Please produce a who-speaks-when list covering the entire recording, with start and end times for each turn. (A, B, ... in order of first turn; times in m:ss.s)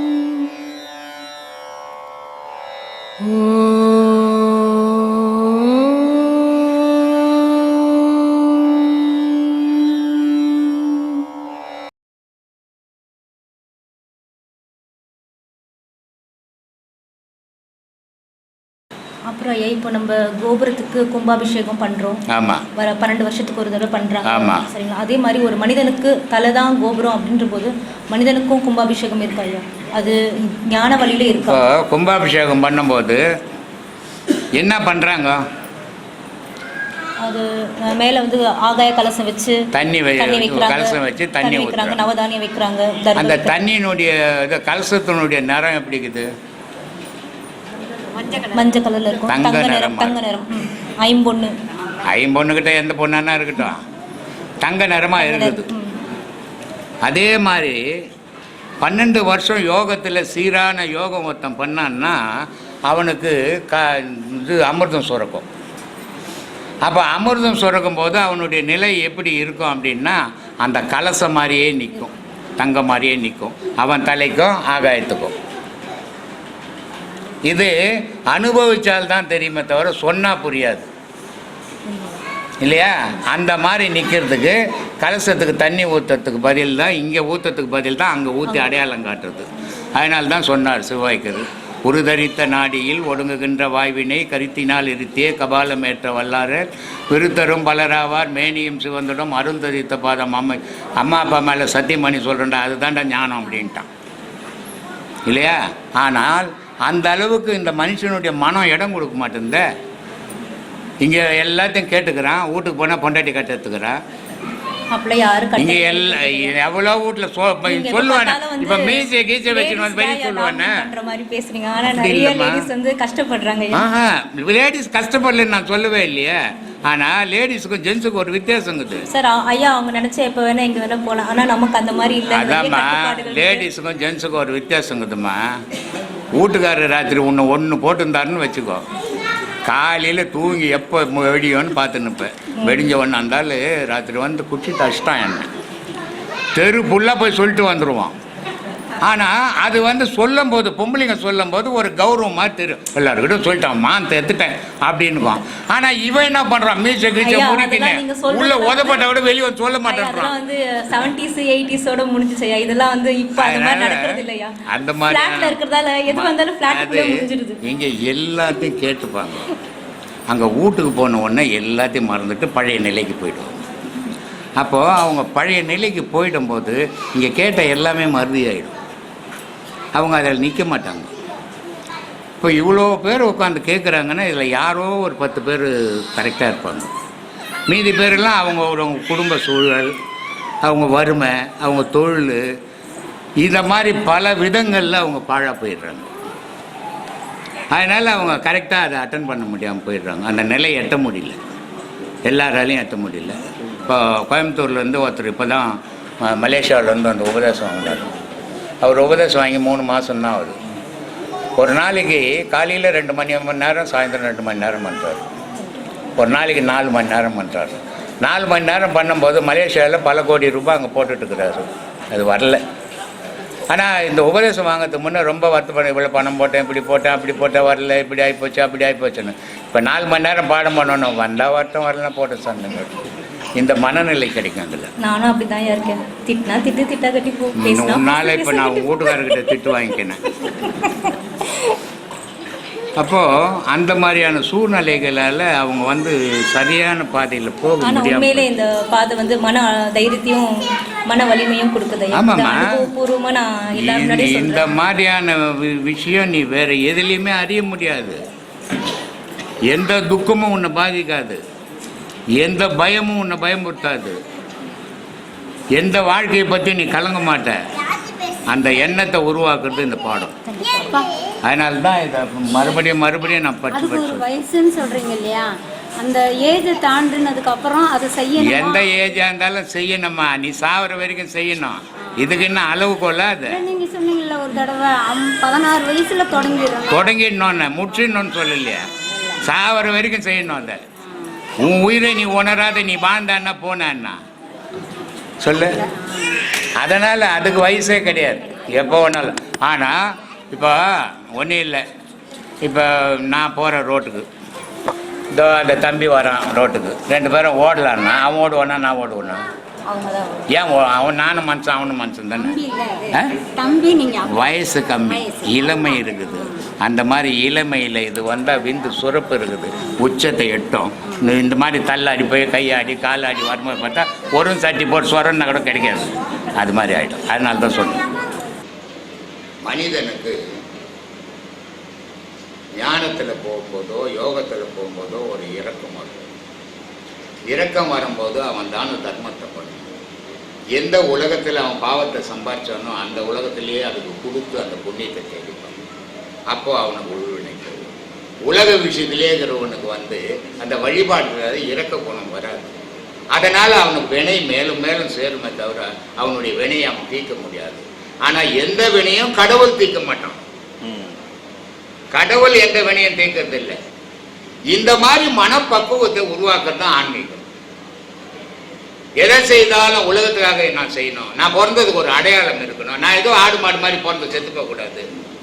0:19.3-0:22.2 A
0:22.3-0:22.6 B
0:22.8-0:31.6 A
0:24.2-0:24.6 B
0:31.5-0:33.2 B
0:34.6-0:35.4 B
0:37.2-0:39.6 A
0:39.7-0:42.0 B
0:40.2-0:43.5 A
0:43.2-0:46.3 B
0:48.3-0:51.5 A
0:49.3-0:50.2 B
0:52.0-0:53.8 B
0:54.6-0:55.7 B
0:55.2-0:56.0 A
0:57.0-0:57.8 B
0:58.8-1:05.5 B
1:06.8-1:15.3 B
1:17.5-1:17.7 B
1:18.3-1:20.9 B
1:21.9-1:22.1 A
1:22.6-1:43.9 B
1:45.3-1:49.7 B
1:51.0-1:54.0 B
1:54.9-1:56.5 A
1:55.6-2:00.9 B
1:57.7-2:03.8 A
2:01.8-2:02.6 B
2:03.7-2:09.1 B
2:09.1-2:13.6 A
2:12.3-2:15.6 B
2:16.3-2:18.8 B
2:19.7-2:25.5 B
2:26.5-2:28.2 B
2:29.0-2:40.3 B
2:37.2-2:39.1 A
2:39.9-2:47.6 A
2:43.4-2:45.6 B
2:46.1-2:49.5 B
2:50.3-2:53.6 B
2:54.6-2:58.8 B
2:59.9-3:01.1 B
3:02.4-3:06.9 B
3:07.7-3:09.9 B
3:10.6-3:12.5 B
3:13.4-3:16.1 B
3:17.7-3:21.4 B
3:22.2-3:28.1 B
3:28.8-3:30.6 B
3:31.6-3:35.2 B
3:36.2-3:42.6 B
3:43.7-3:53.0 B
3:53.6-3:54.9 B
3:55.0-3:59.2 A
3:57.6-4:00.2 B
4:00.5-4:01.1 A
4:03.0-4:08.5 B
4:07.8-4:14.6 A
4:12.1-4:12.9 B
4:13.8-4:18.2 B
4:19.7-4:21.4 B
4:22.4-4:24.2 B
4:25.8-4:27.6 B
4:28.5-4:30.3 B
4:30.5-4:31.1 C
4:31.4-4:34.2 B
4:33.7-4:38.9 C
4:38.4-4:43.6 B
4:43.5-4:47.1 C
4:46.9-4:48.8 B
4:49.4-4:50.8 B
4:51.6-4:54.2 B
4:55.4-4:55.8 B
4:56.8-5:00.0 B
5:00.5-5:01.8 B
5:02.6-5:04.3 B
5:05.3-5:09.4 B
5:09.8-5:10.5 C
5:10.5-5:12.6 B
5:12.4-5:14.4 C
5:13.1-5:13.4 B
5:14.2-5:28.3 B
5:29.6-5:30.4 B
5:32.8-5:36.2 B
5:37.5-5:39.9 B
5:40.7-5:45.8 B
5:46.5-5:47.9 B
5:48.4-5:52.7 B
5:53.3-6:01.1 B
6:02.1-6:03.8 B
6:04.7-6:07.4 B
6:09.2-6:15.1 B